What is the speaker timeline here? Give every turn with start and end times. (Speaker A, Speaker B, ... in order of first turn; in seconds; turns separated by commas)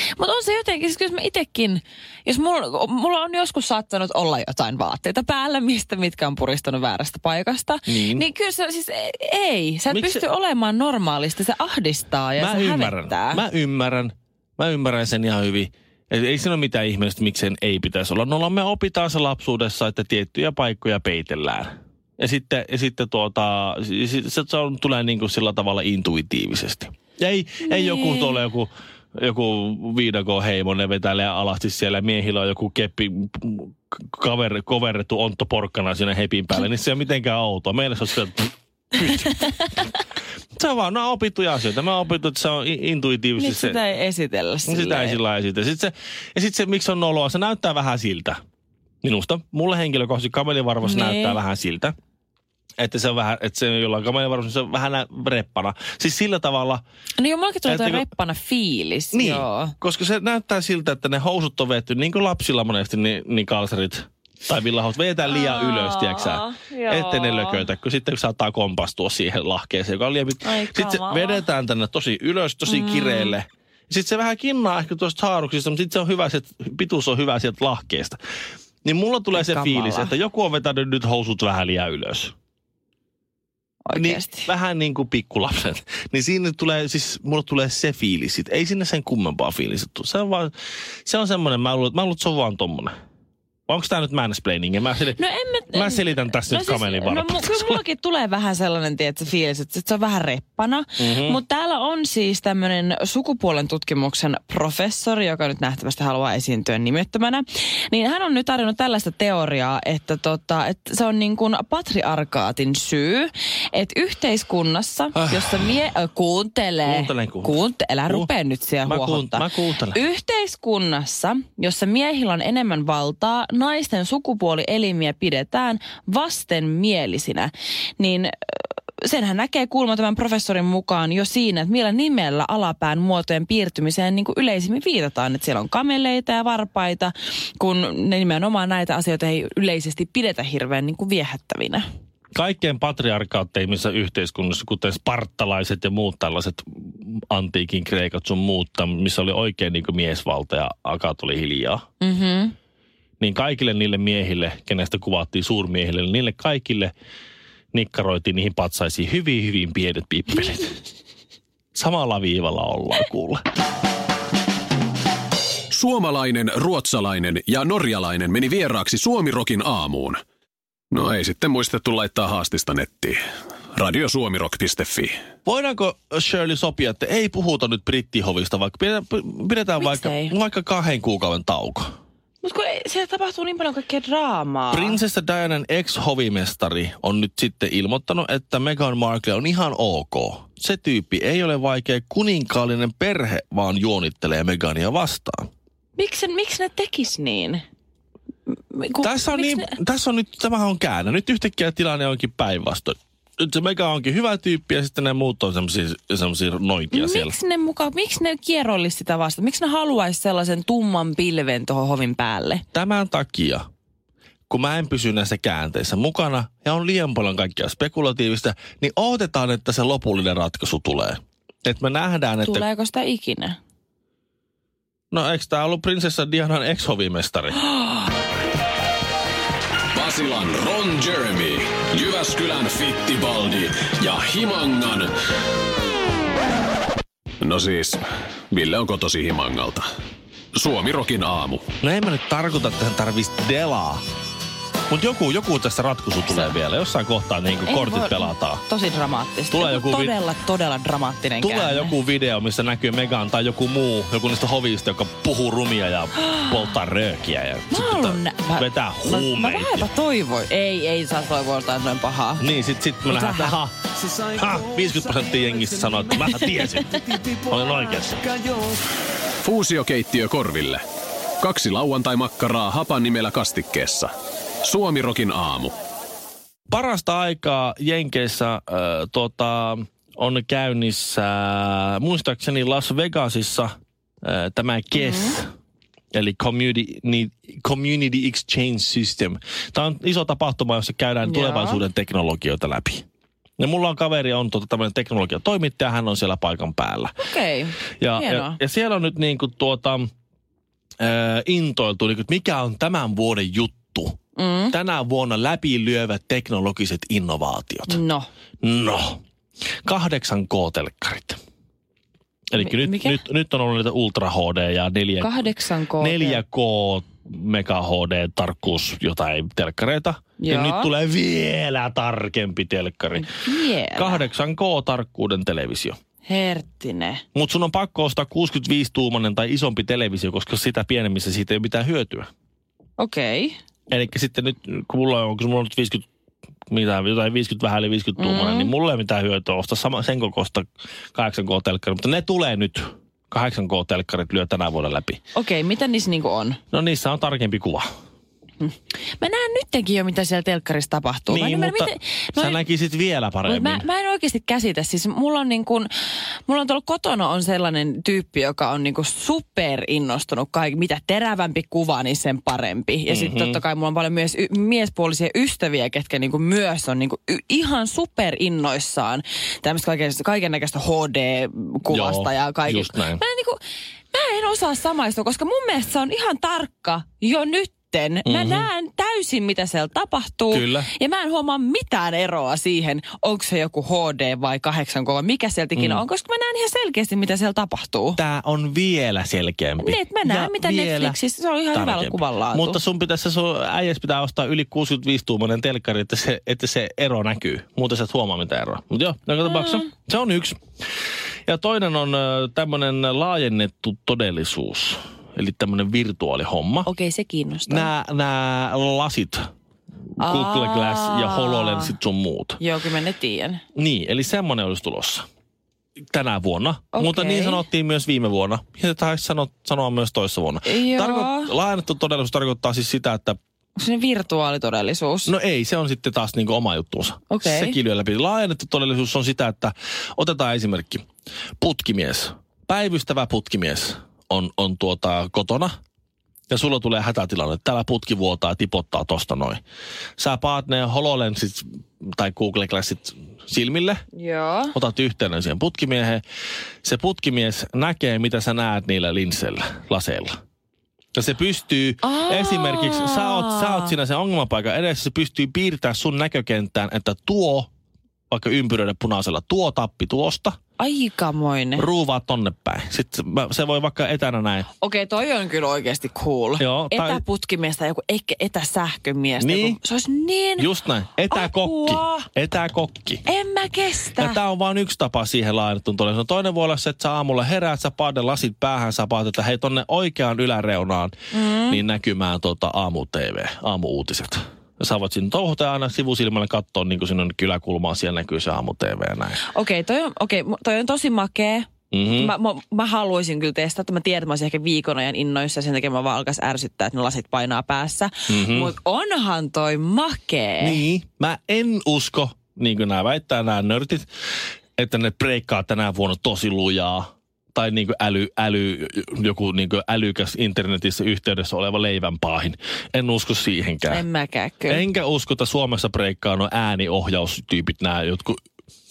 Speaker A: 0.1-13.4, Speaker B: 7.9-8.3, Speaker B: 9.9-10.2, Speaker B: 12.4-39.4, Speaker A: 27.6-28.4, Speaker B: 40.5-43.8, Speaker A: 43.4-45.2, Speaker B: 44.7-48.4, Speaker B: 49.0-51.9, Speaker A: 50.8-51.4, Speaker B: 52.8-56.8, Speaker A: 57.2-59.7, Speaker B: 57.6-58.1, Speaker B: 59.1-78.2, Speaker A: 65.3-67.6, Speaker A: 70.4-71.4, Speaker A: 72.7-73.4, Speaker B: 78.8-82.3, Speaker A: 79.4-80.1, Speaker A: 83.8-84.5, Speaker B: 83.9-90.5, Speaker B: 91.0-92.9, Speaker B: 93.7-95.2, Speaker A: 95.2-141.8, Speaker B: 95.7-97.8, Speaker B: 101.0-101.4, Speaker B: 116.8-118.3, Speaker B: 118.8-120.0, Speaker B: 142.3-151.8, Speaker A: 152.0-152.5, Speaker B: 153.2-156.9, Speaker B: 157.7-160.7, Speaker B: 161.8-163.4, Speaker C: 165.7-170.2, Speaker C: 170.9-173.2, Speaker C: 173.8-175.1, Speaker B: 175.4-181.9, Speaker A: 179.8-180.3, Speaker A: 182.4-185.0, Speaker B: 184.7-195.5, Speaker A: 195.9-197.6, Speaker A: 198.7-199.7, Speaker B: 199.0-207.3, Speaker A: 206.9-212.6, Speaker B: 212.7-213.6, Speaker B: 214.5-222.7, Speaker A: 222.4-223.6, Speaker B: 225.1-227.6, Speaker C: 229.9-235.1, Speaker C: 237.4-239.9, Speaker C: 240.6-241.6, Speaker B: 241.8-244.0, Speaker B: 244.9-248.6, Speaker A: 246.3-246.6, Speaker A: 247.7-251.9, Speaker B: 249.5-250.2, Speaker B: 251.4-259.9, Speaker A: 256.2-256.7, Speaker A: 257.7-262.4, Speaker B: 262.4-263.7, Speaker A: 263.1-263.6, Speaker B: 264.3-268.2, Speaker C: 269.4-270.8, Speaker C: 271.4-274.1, Speaker C: 274.6-275.8, Speaker B: 276.7-285.5, Speaker A: 284.9-285.4, Speaker B: 286.1-293.1, Speaker A: 291.2-291.8, Speaker B: 293.6-297.2, Speaker A: 297.2-298.6, Speaker B: 298.0-300.1, Speaker B: 301.0-304.2, Speaker A: 304.4-304.8, Speaker B: 304.7-308.0, Speaker A: 307.9-308.3, Speaker B: 308.6-309.2, Speaker B: 309.8-311.4, Speaker B: 312.5-315.5, Speaker A: 312.6-313.2, Speaker A: 315.2-316.4, Speaker B: 316.0-323.3, Speaker A: 320.4-320.9, Speaker A: 323.2-324.3, Speaker B: 323.9-325.9, Speaker A: 326.3-327.2, Speaker B: 327.3-332.3, Speaker A: 333.0-333.6, Speaker B: 333.9-336.0, Speaker B: 336.7-345.2, Speaker A: 338.2-338.7, Speaker A: 345.3-346.6, Speaker B: 346.7-347.9, Speaker A: 348.6-352.6, Speaker B: 351.3-353.9, Speaker A: 353.4-355.9, Speaker A: 356.4-373.6, Speaker B: 363.1-363.6, Speaker B: 371.9-373.2, Speaker A: 374.1-388.2, Speaker B: 378.2-378.7, Speaker B: 380.5-380.9, Speaker B: 385.8-386.0, Speaker B: 388.2-391.2, Speaker A: 389.8-392.8, Speaker B: 391.7-400.6, Speaker B: 401.5-406.9, Speaker A: 406.8-407.9, Speaker B: 407.7-409.4, Speaker A: 410.2-411.9, Speaker B: 410.2-412.6, Speaker A: 412.6-413.6, Speaker B: 413.8-415.2, Speaker B: 416.1-423.4, Speaker A: 416.9-417.6, Speaker A: 420.6-421.5, Speaker A: 423.8-425.3, Speaker B: 425.3-431.1, Speaker A: 427.3-427.8, Speaker B: 431.6-435.7, Speaker B: 436.5-439.6, Speaker B: 440.2-444.0, Speaker A: 444.1-444.8, Speaker B: 444.8-446.2, Speaker B: 446.8-450.3, Speaker B: 451.1-457.7, Speaker A: 452.0-453.9, Speaker B: 458.3-460.6, Speaker A: 460.8-461.9, Speaker B: 461.8-464.7, Speaker A: 464.8-470.7, Speaker B: 466.6-467.2, Speaker B: 469.4-469.8, Speaker B: 470.6-473.2, Speaker A: 471.3-472.3, Speaker A: 473.2-474.4, Speaker B: 474.2-481.1, Speaker A: 481.3-481.8, Speaker B: 481.7-489.4, Speaker A: 489.4-500.8, Speaker B: 491.9-492.3, Speaker B: 498.3-498.7, Speaker B: 500.6-504.1, Speaker B: 504.8-514.0, Speaker A: 513.9-514.8, Speaker B: 514.7-518.4